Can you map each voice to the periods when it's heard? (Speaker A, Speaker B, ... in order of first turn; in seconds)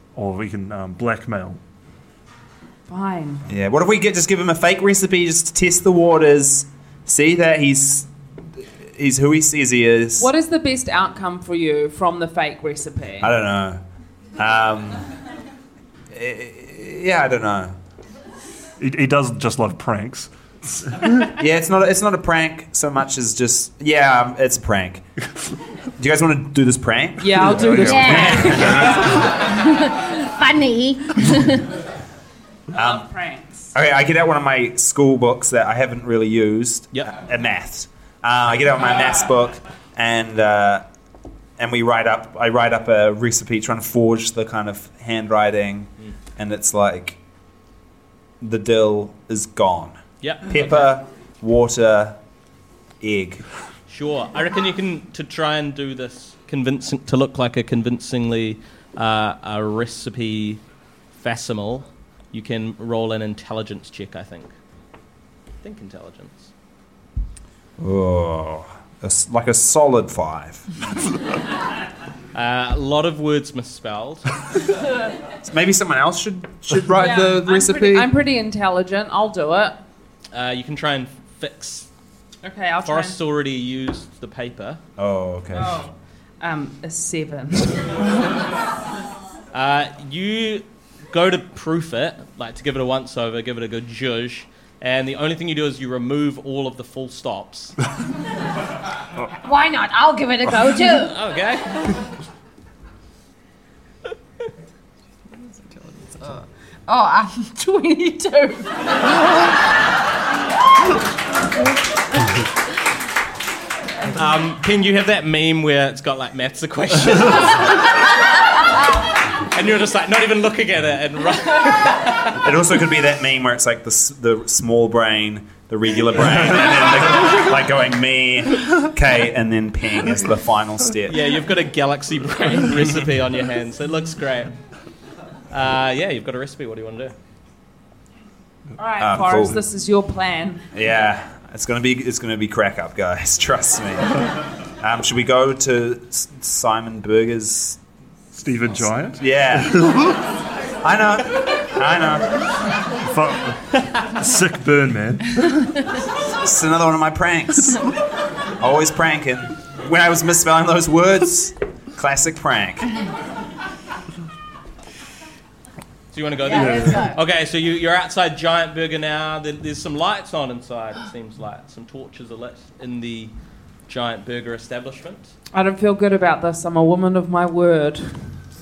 Speaker A: 0.1-1.6, 18.8-20.3, 20.8-21.2, 27.5-27.9, 148.3-150.2, 153.1-155.8, 166.5-167.0
Speaker B: 2.9-3.4, 10.2-13.3, 27.2-29.1, 32.7-33.7, 76.9-79.8, 82.4-83.2, 85.5-87.9, 138.8-140.6, 175.5-178.2
Speaker C: 3.5-10.3, 13.2-13.8, 14.4-15.1, 16.1-17.8, 21.4-25.0, 26.0-29.2, 32.7-33.1, 33.7-40.8, 41.6-47.2, 48.4-52.2, 53.0-53.4, 67.8-70.7, 75.4-78.1, 85.0-85.8, 122.4-131.2, 139.0-139.6, 140.7-144.2, 144.8-147.8, 149.1-150.1, 150.8-152.3, 156.3-157.8, 158.6-162.9
Speaker D: 27.9-31.6, 99.4-101.1
Speaker E: 50.2-50.8, 53.9-60.6, 61.2-64.5, 65.6-66.5, 72.3-74.3, 80.3-81.9, 82.8-84.8, 89.5-97.8, 100.9-101.9, 114.1-118.1, 119.5-122.4, 131.1-134.5, 135.5-137.1, 166.1-173.3, 173.9-175.3
Speaker F: 105.4-108.9, 166.4-167.2